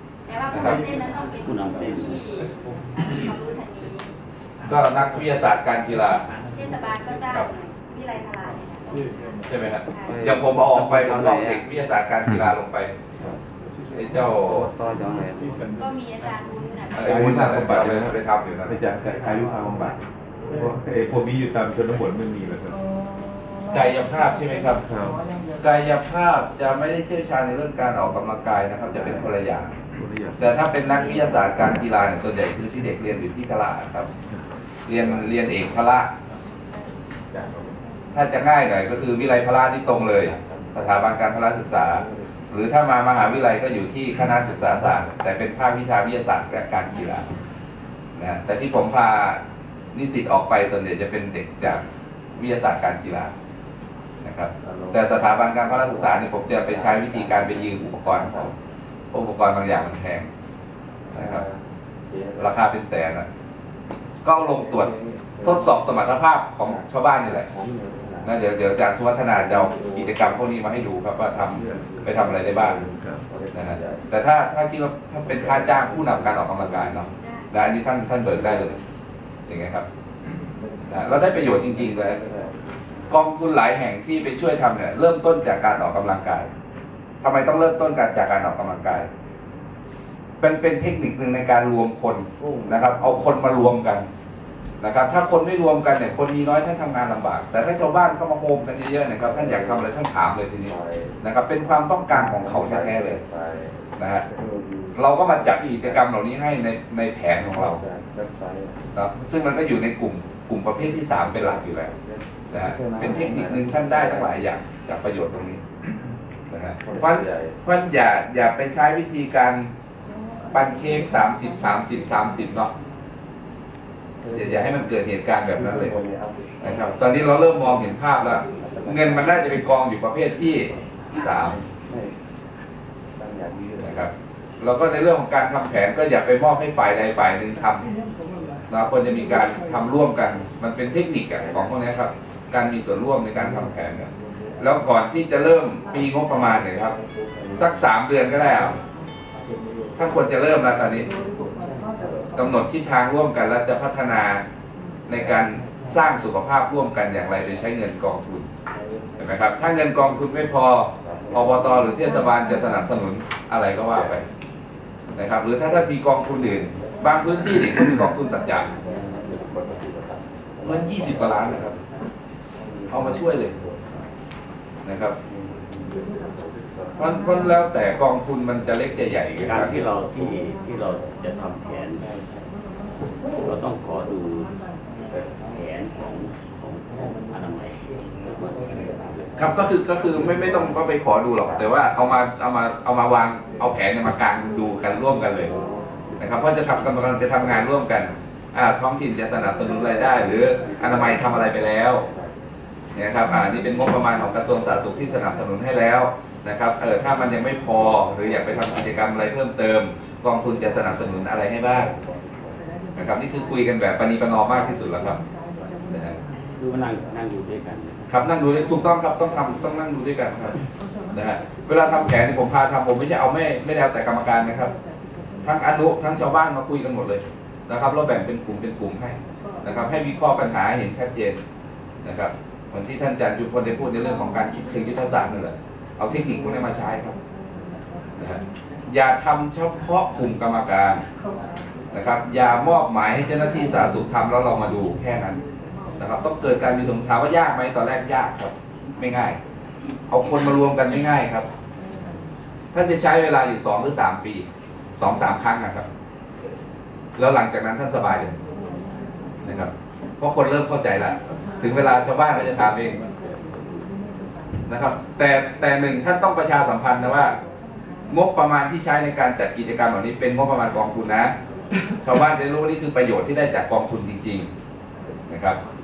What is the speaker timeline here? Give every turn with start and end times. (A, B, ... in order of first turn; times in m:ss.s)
0:00.3-0:04.1 A
0:00.5-0:00.8 B
0:01.4-0:02.2 C
0:04.7-0:06.2 B
0:06.5-0:09.3 A
0:09.5-0:12.9 B
0:09.9-0:10.2 A
0:13.9-0:14.7 B
0:15.7-0:17.2 A
0:16.9-0:18.9 B
0:17.1-0:18.1 D
0:18.7-0:20.0 D
0:20.5-0:22.7 D
0:23.7-0:24.8 B
0:24.9-0:25.2 D
0:25.6-0:29.8 B
0:30.4-0:34.1 B
0:34.9-0:36.1 B
0:38.1-0:47.3 B
0:48.2-0:49.4 B
0:49.9-0:51.8 B
0:52.4-0:53.3 B
0:54.2-0:58.5 B
0:59.1-1:00.3 B
1:01.1-1:01.5 B
1:02.4-1:03.3 B
1:04.2-1:07.5 B
1:08.2-1:12.8 B
1:13.5-1:18.8 B
1:17.2-1:17.5 A
1:19.5-1:19.9 B
1:20.9-1:22.2 B
1:23.1-1:26.5 B
1:27.2-1:29.1 B
1:30.4-1:34.1 B
1:34.8-1:43.2 B
1:44.0-1:44.2 B
1:45.0-1:47.8 B
1:48.9-1:51.9 B
1:52.5-1:55.6 B
1:56.5-1:59.7 B
2:00.5-2:02.7 B
2:04.3-2:06.0 B
2:06.6-2:11.6 B
2:13.8-2:17.9 B
2:18.7-2:27.0 B
2:27.6-2:28.8 B
2:30.0-2:31.1 B
2:32.4-2:34.4 B
2:35.1-2:38.5 B
2:39.2-2:44.2 B
2:45.2-2:48.7 B
2:50.6-2:51.8 B
2:52.9-2:53.6 B
2:54.8-2:55.2 B
2:57.0-2:59.9 B
2:59.4-3:02.0 C
3:03.4-3:04.6 C
3:05.5-3:09.3 C
3:09.4-3:15.5 B
3:16.2-3:22.1 B
3:23.0-3:31.9 B
3:33.0-3:35.2 B
3:35.9-3:36.2 B
3:36.6-3:38.1 C
3:38.1-3:40.6 B
3:41.1-3:44.7 B
3:45.4-3:51.4 B
3:52.0-3:57.2 B
3:58.2-4:01.0 B
4:01.9-4:05.4 B
4:06.0-4:09.4 B
4:10.1-4:11.5 B
4:12.7-4:14.5 B
4:15.0-4:15.9 B
4:17.2-4:18.4 B
4:19.4-4:23.0 B
4:24.7-4:27.4 B
4:28.1-4:31.4 B
4:32.0-4:34.5 B
4:35.3-4:35.6 B